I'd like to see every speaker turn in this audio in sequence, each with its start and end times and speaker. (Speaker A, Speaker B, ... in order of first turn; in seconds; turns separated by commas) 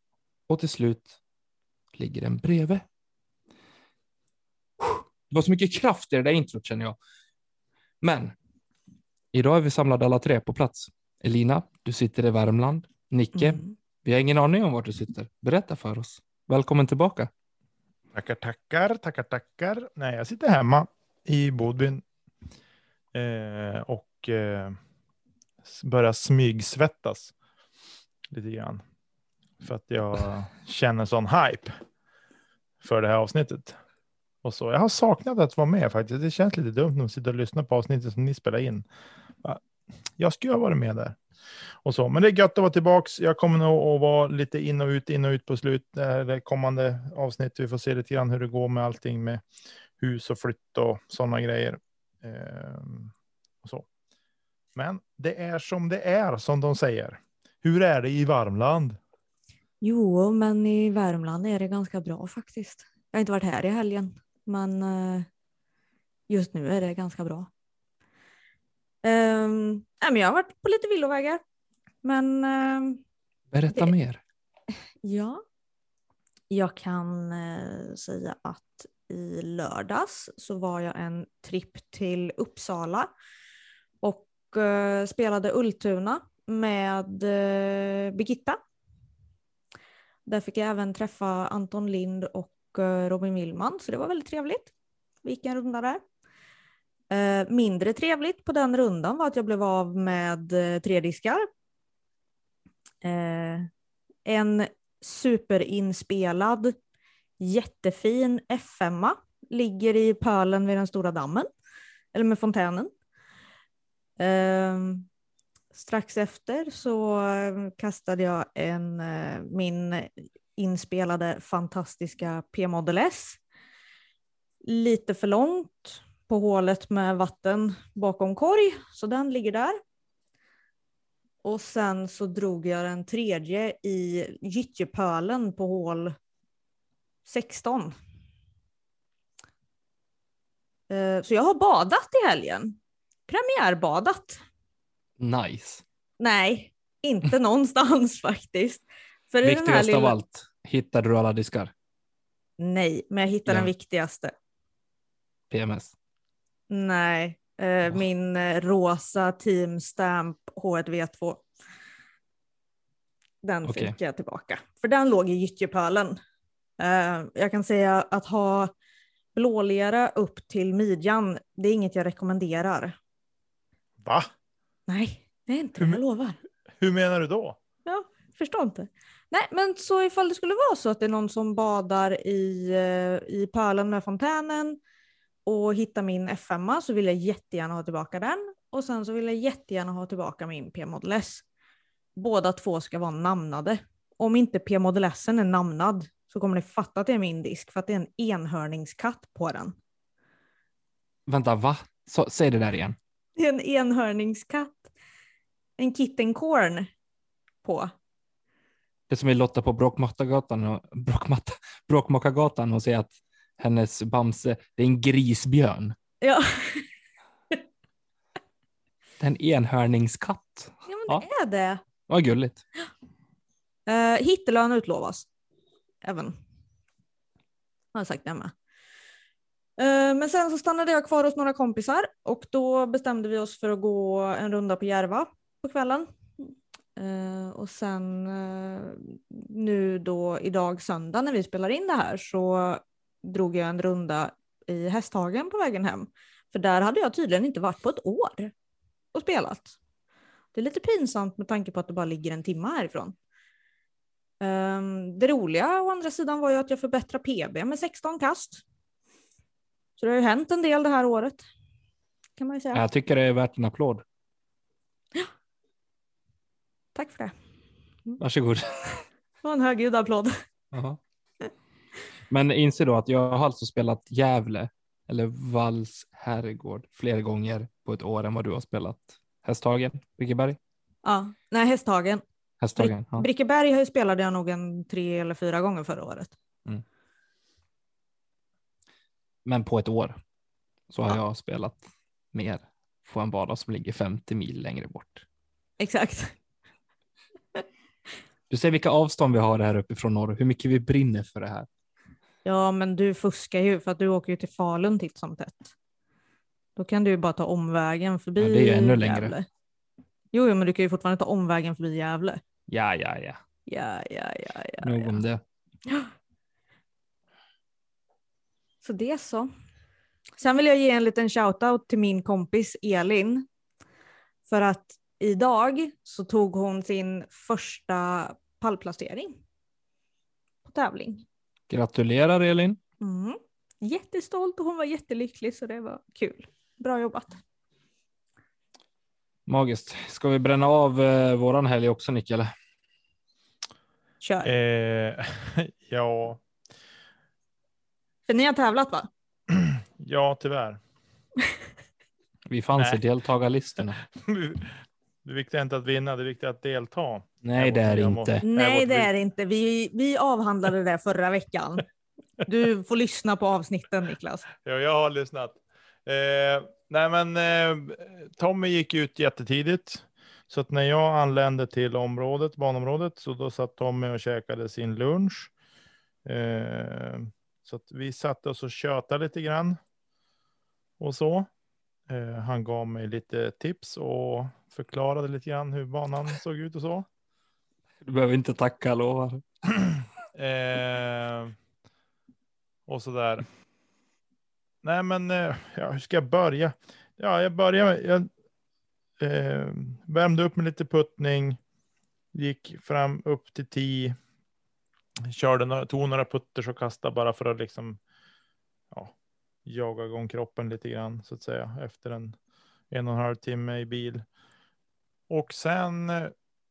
Speaker A: 0.5-1.2, Speaker A: 1.9-2.9, Speaker A: 5.3-7.0, Speaker A: 8.0-8.3, Speaker A: 9.3-17.3, Speaker B: 13.3-13.7, Speaker C: 18.1-22.0, Speaker C: 23.1-24.8, Speaker C: 25.6-27.3, Speaker C: 28.3-28.8, Speaker C: 29.6-31.8, Speaker C: 32.8-33.8, Speaker C: 34.4-38.9, Speaker C: 40.2-41.2, Speaker C: 41.8-49.4, Speaker C: 50.0-53.1, Speaker C: 54.8-59.0, Speaker B: 59.8-65.3, Speaker B: 66.3-67.5, Speaker B: 69.0-71.4, Speaker B: 72.0-73.0, Speaker A: 73.5-74.2, Speaker B: 75.0-75.4, Speaker B: 76.5-83.1, Speaker B: 84.0-88.6, Speaker B: 90.3-94.7, Speaker B: 95.2-96.0, Speaker B: 97.1-101.5, Speaker B: 103.0-103.7, Speaker B: 104.2-106.8, Speaker B: 107.4-111.5, Speaker B: 112.1-112.9, Speaker B: 114.2-115.1, Speaker B: 115.7-123.4, Speaker B: 124.6-129.8, Speaker B: 131.4-136.2, Speaker B: 137.2-137.9, Speaker B: 140.9-142.8, Speaker B: 143.3-144.4, Speaker A: 145.2-145.8, Speaker B: 146.2-150.2, Speaker A: 149.4-151.7, Speaker B: 152.6-154.3, Speaker A: 155.5-155.9, Speaker B: 156.7-161.4, Speaker B: 163.4-166.2, Speaker A: 163.7-163.9, Speaker B: 166.8-168.7, Speaker B: 169.3-173.0, Speaker C: 174.0-174.3, Speaker B: 174.9-176.4, Speaker C: 176.8-177.6, Speaker B: 177.9-184.8, Speaker B: 185.5-191.4, Speaker B: 192.2-199.8, Speaker A: 201.3-203.0, Speaker B: 203.4-204.9, Speaker B: 205.8-206.9, Speaker B: 207.6-207.9, Speaker A: 209.1-216.0, Speaker B: 216.2-216.9, Speaker A: 219.2-221.3, Speaker B: 220.9-221.8, Speaker A: 222.1-222.6, Speaker B: 223.9-225.3, Speaker B: 226.0-226.3, Speaker B: 227.9-228.5, Speaker B: 229.8-248.5, Speaker B: 249.1-249.8, Speaker B: 250.5-253.2, Speaker B: 254.4-258.6, Speaker B: 260.0-261.5, Speaker B: 262.4-262.8, Speaker A: 262.7-264.0, Speaker B: 266.9-267.4, Speaker A: 268.2-268.9, Speaker B: 269.4-270.4, Speaker A: 270.7-271.0, Speaker A: 272.3-280.6, Speaker B: 281.0-282.2, Speaker A: 282.6-283.3, Speaker B: 282.8-286.4, Speaker A: 289.4-290.2, Speaker A: 290.9-295.2, Speaker B: 295.8-296.4, Speaker A: 298.5-301.7, Speaker B: 302.4-305.7, Speaker B: 306.8-309.5, Speaker A: 308.4-309.3, Speaker B: 310.3-312.4, Speaker A: 312.7-313.4, Speaker B: 313.7-315.2, Speaker A: 314.8-315.4, Speaker B: 318.8-319.5, Speaker B: 320.4-323.5, Speaker B: 324.5-329.4, Speaker B: 330.6-331.3, Speaker A: 331.7-332.8, Speaker B: 333.0-337.4, Speaker A: 339.5-342.5, Speaker B: 344.2-344.5, Speaker C: 344.4-346.4, Speaker B: 348.3-349.1, Speaker C: 349.5-350.8, Speaker A: 352.5-354.0, Speaker C: 354.1-359.1, Speaker A: 357.4-358.4, Speaker B: 358.4-361.9, Speaker B: 362.4-364.5, Speaker C: 364.6-375.5, Speaker C: 376.2-379.8, Speaker C: 381.0-381.5, Speaker C: 382.1-387.1, Speaker A: 388.0-389.4, Speaker C: 390.4-391.6, Speaker C: 392.9-393.4, Speaker C: 394.8-398.3, Speaker C: 399.2-401.6, Speaker C: 402.3-404.2, Speaker C: 405.3-408.0, Speaker C: 409.7-412.4, Speaker C: 412.9-414.2, Speaker C: 415.3-416.3